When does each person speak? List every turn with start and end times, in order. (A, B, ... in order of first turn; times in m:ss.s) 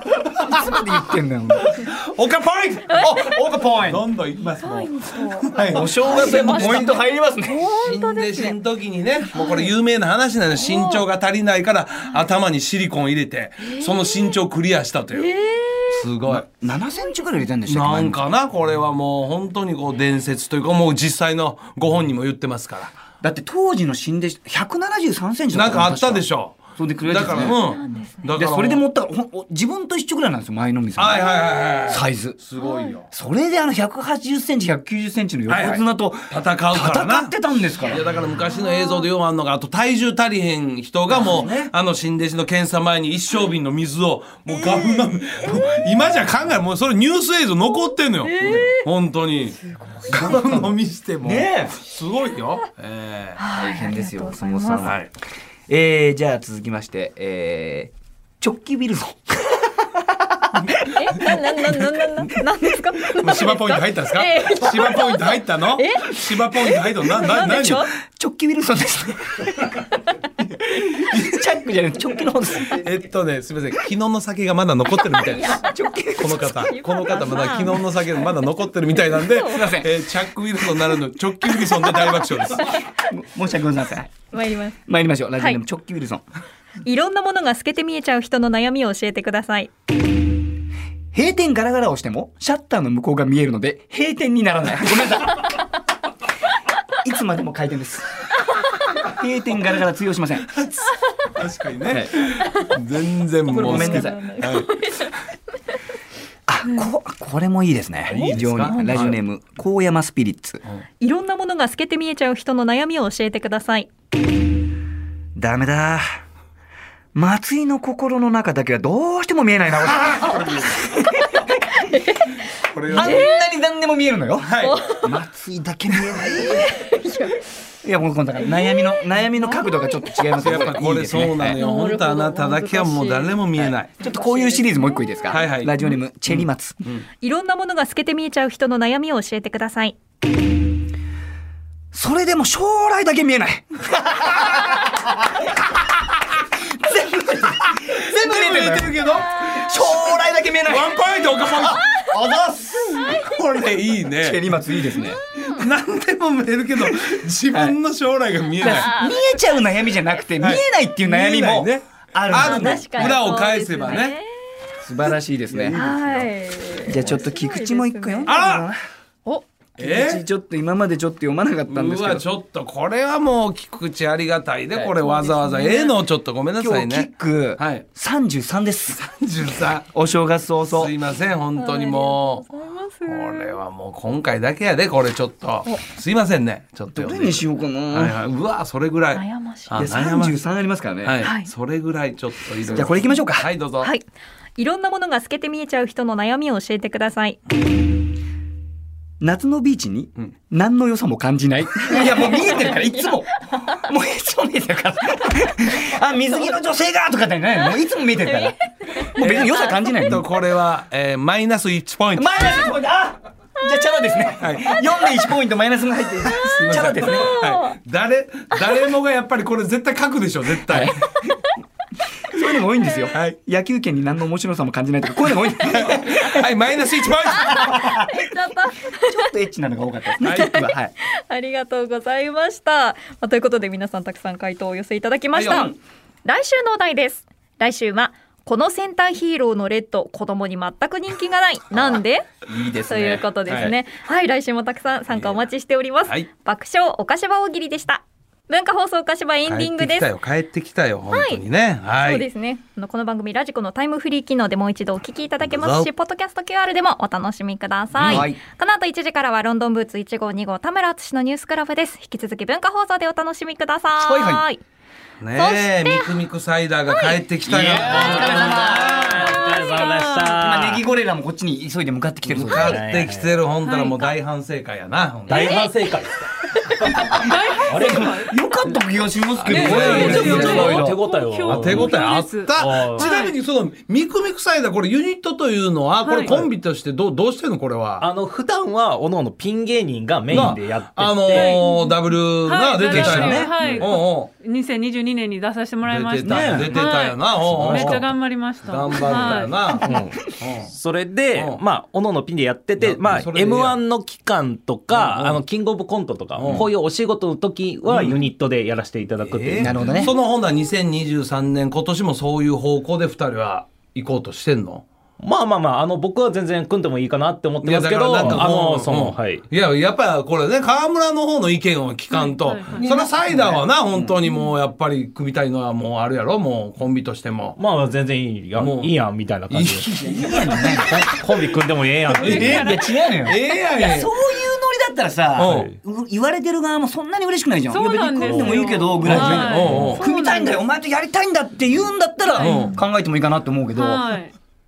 0:00.4-0:01.8 A
0:01.8-0:03.3 B
0:02.9-0:03.4 C
0:03.0-0:04.0 A
0:03.8-0:07.0 B
0:04.6-0:08.6 C
0:05.7-0:07.7 A
0:07.8-0:15.3 B
0:09.3-0:09.7 C
0:10.6-0:11.0 C
0:13.6-0:14.4 C
0:15.2-0:16.0 C
0:15.9-0:16.5 B
0:16.3-0:18.3 A
0:17.7-0:22.9 B
0:23.2-0:27.6 A
0:25.5-0:28.8 B
0:27.3-0:28.3 C
0:28.4-0:31.4 A
0:31.0-0:33.1 B
0:31.2-0:31.7 C
0:31.9-0:32.4 A
0:32.6-0:33.0 C
0:33.1-0:38.0 A
0:35.5-0:37.3 B
0:37.8-0:49.6 B
0:38.4-0:39.0 C
0:41.1-0:41.7 A
0:48.2-0:48.9 C
0:49.9-0:50.3 C
0:50.1-0:53.4 B
0:50.1-0:51.8 A
0:53.4-0:54.9 C
0:53.6-0:55.0 A
0:54.8-0:55.1 B
0:55.7-1:00.0 A
1:01.0-1:06.1 C
1:03.1-1:07.8 B
1:07.2-1:07.9 C
1:07.2-1:09.7 A
1:10.4-1:12.8 A
1:12.7-1:15.6 B
1:15.2-1:18.4 C
1:15.5-1:16.7 A
1:16.2-1:22.8 B
1:18.9-1:19.7 C
1:19.5-1:19.9 A
1:23.0-1:24.2 A
1:24.3-1:24.8 C
1:24.9-1:26.2 A
1:26.8-1:29.7 C
1:31.1-1:35.5 A
1:37.0-1:38.1 A
1:39.0-1:40.6 A
1:41.3-1:44.7 B
1:43.5-1:44.2 A
1:43.5-1:45.1 C
1:46.5-1:50.6 A
1:48.1-1:48.6 D
1:48.2-1:49.2 B
1:48.7-1:49.1 C
1:51.0-1:53.9 C
1:55.4-1:56.0 A
1:57.2-2:01.0 A
2:00.1-2:00.9 B
2:01.8-2:02.2 C
2:02.7-2:03.3 B
2:02.9-2:03.4 C
2:02.9-2:06.7 A
2:04.4-2:04.8 B
2:04.6-2:05.1 C
2:06.3-2:07.4 C
2:07.8-2:11.6 A
2:08.4-2:10.2 C
2:10.4-2:13.9 B
2:11.6-2:13.4 C
2:13.6-2:16.8 A
2:14.0-2:16.0 C
2:15.3-2:15.7 B
2:16.3-2:17.0 B
2:17.2-2:20.0 C
2:21.9-2:25.0 A
2:26.7-2:33.1 A
2:28.1-2:29.8 B
2:29.4-2:29.7 C
2:30.6-2:31.8 B
2:31.6-2:32.1 C
2:32.9-2:33.3 C
2:33.1-2:34.4 B
2:34.2-2:35.2 A
2:35.0-2:35.7 C
2:35.5-2:38.9 B
2:38.6-2:39.6 C
2:38.6-2:43.2 A
2:40.4-2:44.2 B
2:42.3-2:44.5 C
2:44.8-2:46.0 A
2:45.5-2:46.2 B
2:45.8-2:48.4 C
2:46.8-2:48.8 A
2:48.3-2:48.7 B
2:49.8-2:52.3 A
2:49.8-2:50.2 B
2:51.7-2:57.8 B
2:54.8-2:56.0 C
2:56.6-2:59.0 A
2:58.9-2:59.9 B
2:59.9-3:00.9 A
3:00.7-3:02.5 B
3:01.6-3:03.6 C
3:03.1-3:10.4 B
3:06.9-3:08.2 A
3:09.2-3:09.8 C
3:09.8-3:11.2 A
3:11.0-3:13.9 B
3:11.2-3:11.5 C
3:12.7-3:13.5 A
3:14.6-3:17.4 C
3:19.2-3:30.3 A
3:22.0-3:22.6 C
3:28.2-3:30.1 C
3:29.2-3:32.7 B
3:32.2-3:37.4 A
3:34.4-3:34.8 B
3:36.3-3:37.8 C
3:36.4-3:40.9 B
3:40.7-3:41.3 A
3:42.3-3:46.4 A
3:45.7-3:48.0 B
3:47.3-3:49.3 C
3:47.6-3:47.9 A
3:49.0-3:50.9 A
3:50.2-3:50.6 B
3:50.3-4:02.3 C
3:55.3-3:55.6 B
3:55.4-3:55.7 A
4:02.5-4:03.7 A
4:02.9-4:10.1 C
4:09.5-4:12.3 B
4:11.1-4:11.4 C
4:12.0-4:24.6 C
4:15.4-4:15.9 B
4:18.0-4:18.3 B
4:18.0-4:18.4 A
4:24.0-4:24.4 A
4:25.2-4:29.1 B
4:25.4-4:26.2 C
4:26.9-4:27.2 C
4:27.5-4:29.2 A
4:27.6-4:30.8 D
4:28.5-4:30.0 C
4:29.7-4:30.2 E
4:30.3-4:32.8 A
4:32.3-4:35.7 B
4:32.4-4:33.4 D
4:33.6-4:34.1 E
4:35.3-4:38.1 D
4:37.0-4:41.0 A
4:37.2-4:38.4 E
4:39.4-4:40.7 B
4:39.4-4:42.0 D
4:39.5-4:43.4 E
4:41.5-4:48.1 B
4:42.5-4:43.1 D
4:46.0-4:46.4 E
4:48.0-4:51.6 D
4:50.3-4:54.3 B
4:51.3-4:59.8 E
4:52.8-4:53.8 D
4:55.8-5:00.7 B
4:56.2-4:58.0 D
4:59.8-5:10.1 D
5:01.3-5:01.6 B
5:02.8-5:03.8 B
5:04.9-5:05.4 B
5:06.3-5:06.7 B
5:07.8-5:08.2 B
5:09.2-5:14.8 B
5:09.6-5:10.1 A
5:15.2-5:19.5 D
5:17.6-5:27.6 B
5:22.1-5:22.8 E
5:22.8-5:24.2 A
5:27.6-5:29.9 D
5:28.6-5:29.0 B
5:29.5-5:30.8 B
5:29.8-5:31.0 A
5:30.7-5:32.8 D
5:32.1-5:44.1 A
5:32.2-5:32.7 B
5:32.2-5:33.0 E
5:33.2-5:34.1 B
5:35.4-5:35.7 B
5:35.4-5:35.7 D
5:37.7-5:40.6 E
5:38.1-5:40.0 D
5:39.0-5:40.0 B
5:42.2-5:42.8 E
5:42.4-5:42.8 B
5:43.8-5:44.3 E